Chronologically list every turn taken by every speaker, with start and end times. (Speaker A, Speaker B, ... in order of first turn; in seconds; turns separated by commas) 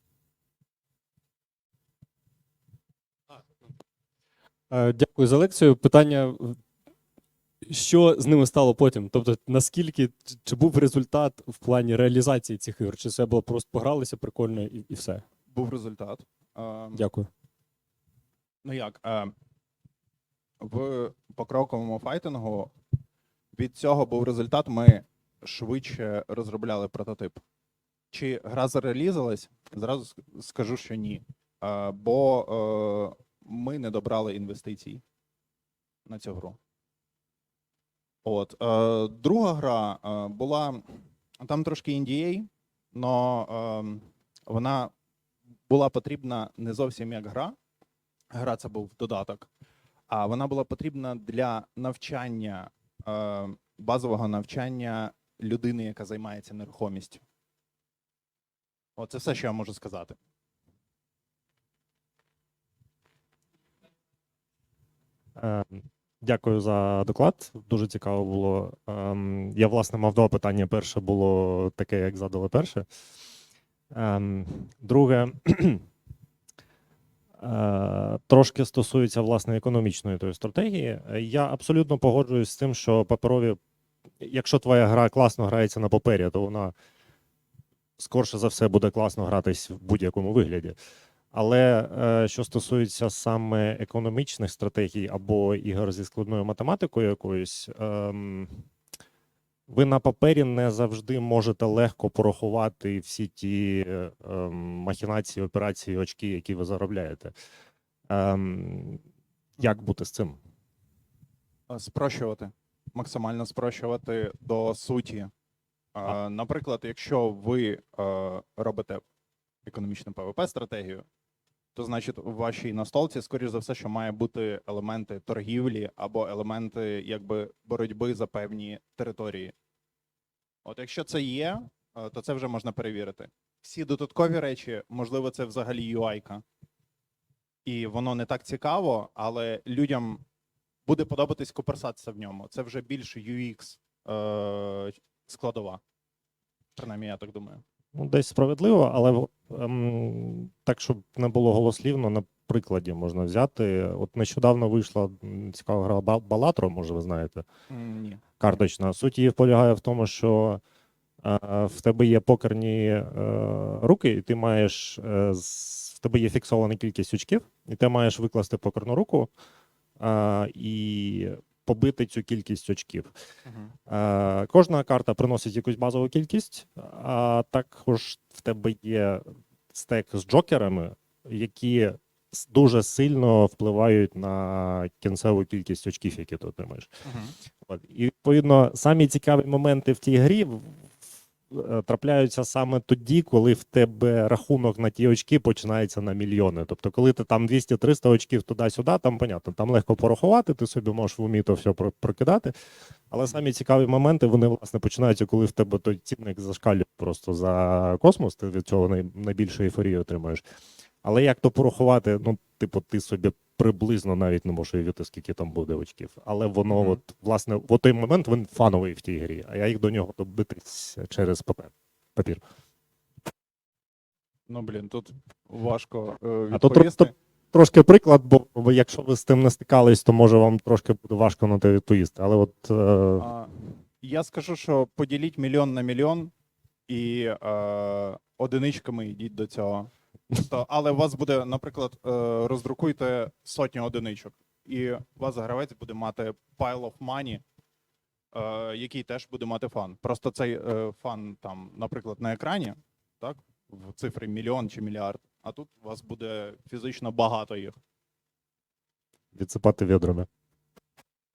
Speaker A: 4.7-6.6, Speaker A: 7.7-15.2, Speaker B: 15.5-17.1, Speaker A: 16.9-17.3, Speaker B: 18.6-19.3, Speaker B: 20.6-22.7, Speaker B: 23.6-27.4, Speaker B: 28.1-35.0, Speaker B: 36.1-36.6, Speaker B: 38.2-40.8, Speaker B: 41.4-44.9, Speaker B: 45.7-47.5, Speaker B: 48.3-49.5, Speaker B: 50.1-57.2, Speaker B: 59.0-60.2, Speaker C: 65.4-72.9, Speaker C: 73.9-75.9, Speaker C: 77.4-83.6, Speaker C: 84.2-86.7, Speaker C: 88.0-90.8, Speaker C: 91.3-98.7, Speaker C: 99.7-107.3, Speaker C: 108.1-109.0, Speaker C: 109.6-110.4, Speaker B: 111.7-115.3, Speaker B: 116.0-119.0, Speaker B: 119.7-121.0, Speaker B: 121.8-129.5, Speaker B: 130.7-136.4, Speaker B: 137.7-140.2, Speaker B: 140.9-145.8, Speaker B: 146.8-147.6, Speaker C: 147.9-157.5, Speaker B: 157.7-158.2, Speaker C: 158.4-160.6, Speaker C: 161.2-169.3, Speaker C: 170.0-173.1, Speaker B: 173.5-173.7, Speaker C: 173.9-186.9, Speaker B: 187.1-187.3, Speaker C: 187.6-190.9, Speaker C: 191.5-202.5, Speaker C: 203.1-210.4, Speaker C: 211.0-222.4, Speaker B: 224.5-227.1, Speaker C: 226.5-233.3, Speaker B: 233.2-236.3, Speaker B: 236.9-247.4, Speaker B: 248.3-257.8, Speaker C: 259.3-260.3